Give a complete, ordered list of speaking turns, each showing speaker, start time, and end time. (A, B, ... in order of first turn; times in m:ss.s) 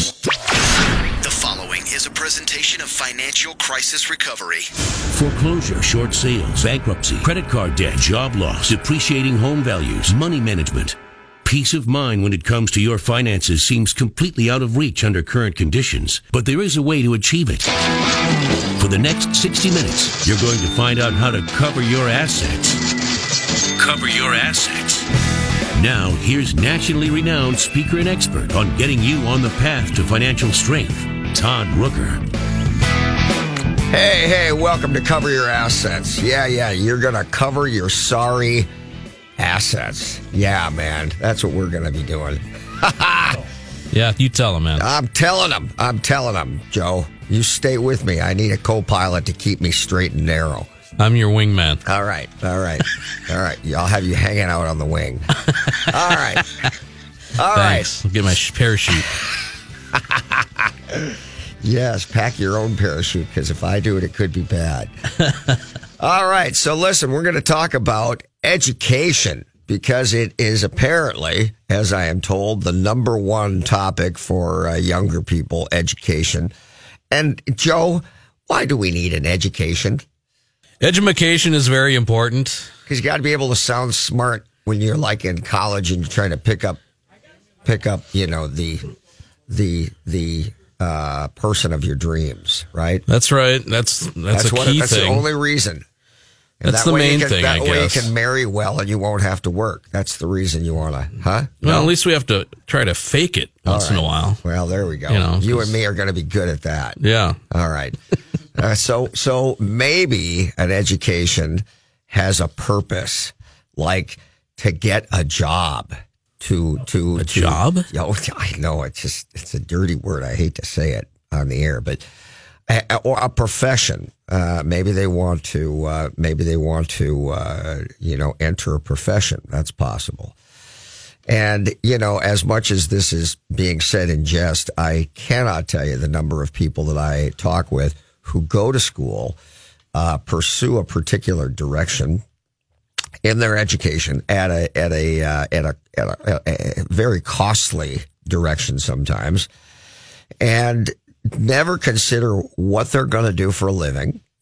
0:01.2-0:04.7 A
0:05.1-0:17.8 B
0:18.8-0:22.8 B
0:23.7-0:25.1 B
0:25.7-0:32.3 B
0:33.9-0:38.7 C
0:39.4-0:43.4 C
0:43.9-0:44.9 D
0:44.8-0:50.7 C
0:51.0-0:51.8 D
0:51.9-0:56.6 C
0:57.4-0:58.0 C
0:57.5-0:59.1 D
0:59.9-1:04.9 C
1:06.0-1:16.5 C
1:17.1-1:20.0 C
1:20.8-1:22.7 D
1:22.9-1:26.8 C
1:27.6-1:28.9 C
1:29.5-1:33.0 C
1:33.1-1:35.2 D
1:34.3-1:35.8 C
1:36.6-1:41.9 C
1:36.6-1:38.1 D
1:41.6-1:44.4 D
1:43.7-1:47.0 C
1:45.1-1:45.8 D
1:47.0-1:47.4 D
1:47.5-1:48.0 C
1:48.6-2:02.0 C
1:57.2-1:57.9 D
2:02.7-2:10.3 C
2:11.3-2:19.4 C
2:19.9-2:22.2 C
2:23.2-2:29.5 C
2:30.4-2:34.2 C